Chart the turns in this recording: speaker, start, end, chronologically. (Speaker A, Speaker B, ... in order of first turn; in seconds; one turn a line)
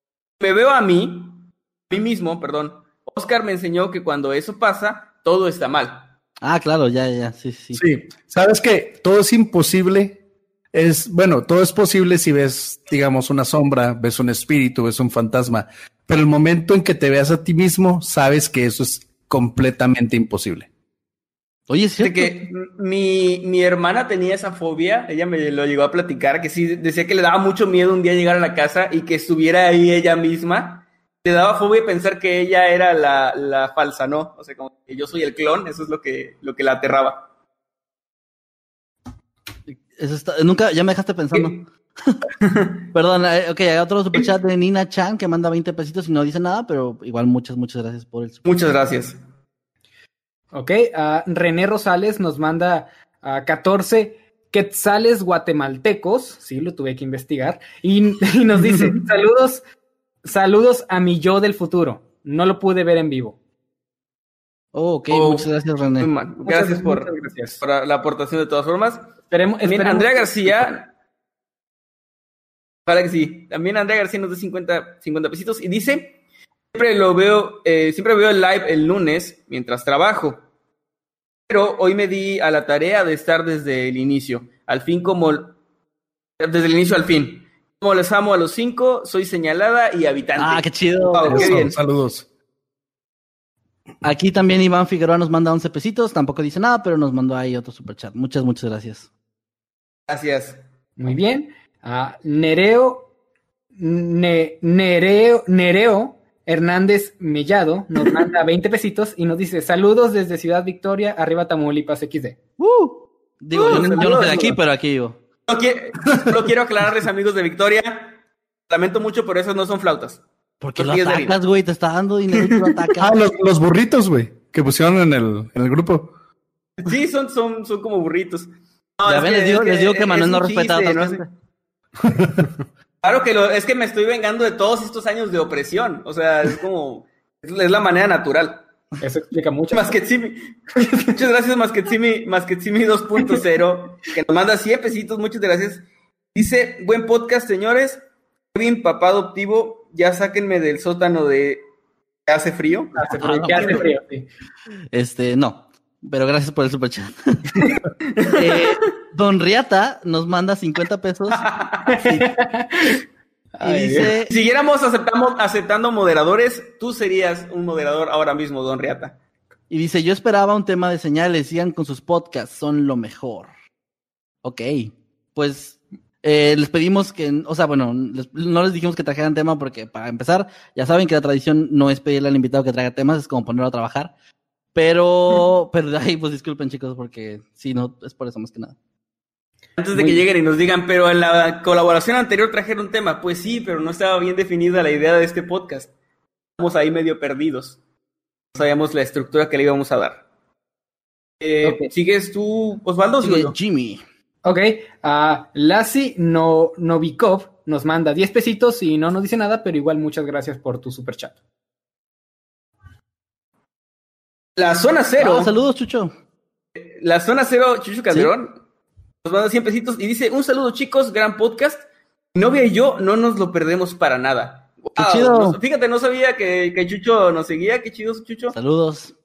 Speaker A: 0.4-6.1
Speaker B: 6.4-7.8
Speaker C: 7.7-10.2
Speaker C: 10.7-20.7
Speaker B: 21.7-22.5
Speaker A: 22.0-37.2
Speaker B: 39.7-42.1
Speaker A: 41.3-41.6
Speaker A: 42.4-42.8
Speaker B: 42.9-48.4
Speaker A: 48.5-49.2
Speaker D: 50.5-59.6
Speaker A: 58.7-59.0
Speaker D: 60.2-63.4
Speaker B: 64.7-66.1
Speaker A: 65.1-65.5
Speaker A: 66.0-69.1
Speaker D: 66.5-67.6
Speaker D: 69.3-70.7
Speaker A: 69.6-70.9
Speaker A: 72.9-76.2
Speaker A: 76.7-80.4
Speaker A: 81.5-85.6
Speaker A: 86.4-91.8
Speaker B: 90.4-91.7
Speaker C: 91.3-92.3
Speaker B: 94.0-99.1
Speaker A: 100.1-100.6
Speaker D: 101.0-103.1
Speaker D: 103.8-112.4
Speaker B: 112.6-115.2
Speaker A: 113.5-114.6
Speaker A: 115.5-118.2
Speaker A: 118.7-120.2
Speaker B: 120.6-123.1
Speaker A: 120.8-121.4
Speaker A: 122.3-122.6
Speaker C: 123.0-126.1
Speaker A: 126.8-131.2
Speaker B: 129.1-131.3
Speaker C: 132.0-132.5
Speaker A: 133.0-138.7
Speaker D: 139.0-139.9
Speaker A: 139.7-148.0
Speaker D: 140.8-141.1
Speaker A: 148.5-151.6
Speaker A: 152.3-153.8
Speaker D: 152.9-154.3
Speaker B: 153.2-153.8
Speaker B: 154.9-157.4
Speaker A: 158.2-158.8
Speaker B: 158.2-161.5
Speaker A: 161.3-161.9
Speaker D: 161.9-163.0
Speaker D: 163.6-164.1
Speaker B: 163.6-164.3
Speaker A: 164.3-169.2
Speaker B: 169.7-173.5
Speaker B: 174.4-184.1
Speaker B: 184.7-188.8
Speaker A: 189.8-195.9
Speaker D: 189.9-190.2
Speaker A: 196.6-197.8
Speaker A: 198.5-200.2
Speaker A: 201.4-203.6
Speaker B: 201.6-201.9
Speaker B: 203.2-204.0
Speaker D: 204.4-211.3
Speaker A: 214.6-215.5
Speaker B: 215.2-216.1
Speaker A: 216.8-218.6
Speaker A: 219.2-228.6
Speaker B: 225.0-225.6
Speaker B: 228.5-229.1